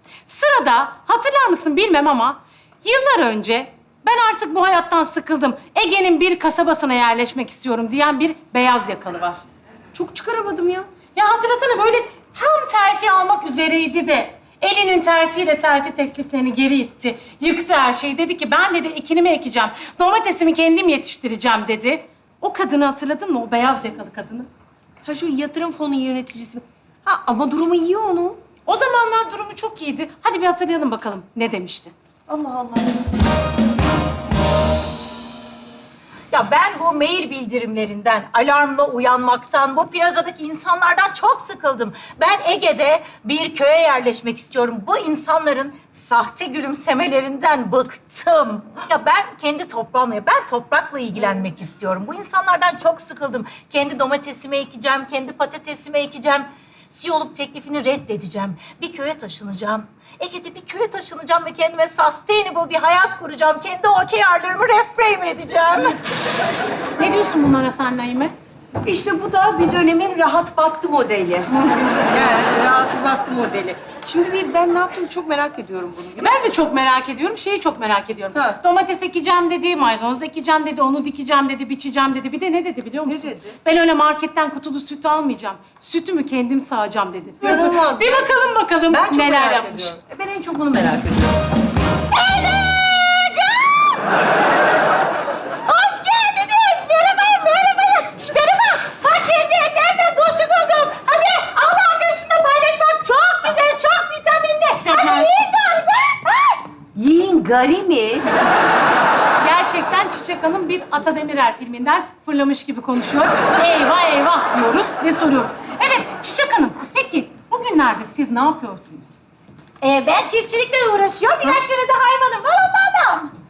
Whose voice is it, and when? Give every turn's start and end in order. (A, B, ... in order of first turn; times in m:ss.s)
0:00.3-0:09.4 A
0:09.9-0:10.9 B
0:11.2-0:24.5 A
0:25.0-0:28.4 B
0:28.7-0:31.9 A
0:32.3-0:33.0 B
0:36.3-1:06.0 C
1:07.0-1:08.3 A
1:08.8-1:16.5 B
1:16.2-1:29.9 A
1:18.3-1:18.6 B
1:23.1-1:23.6 B
1:27.4-1:28.4 B
1:28.9-1:31.4 B
1:32.1-1:34.0 C
1:35.7-1:46.6 C
1:44.8-1:45.3 A
1:47.0-1:48.4 B
1:49.4-1:59.1 A
1:59.8-2:03.3 C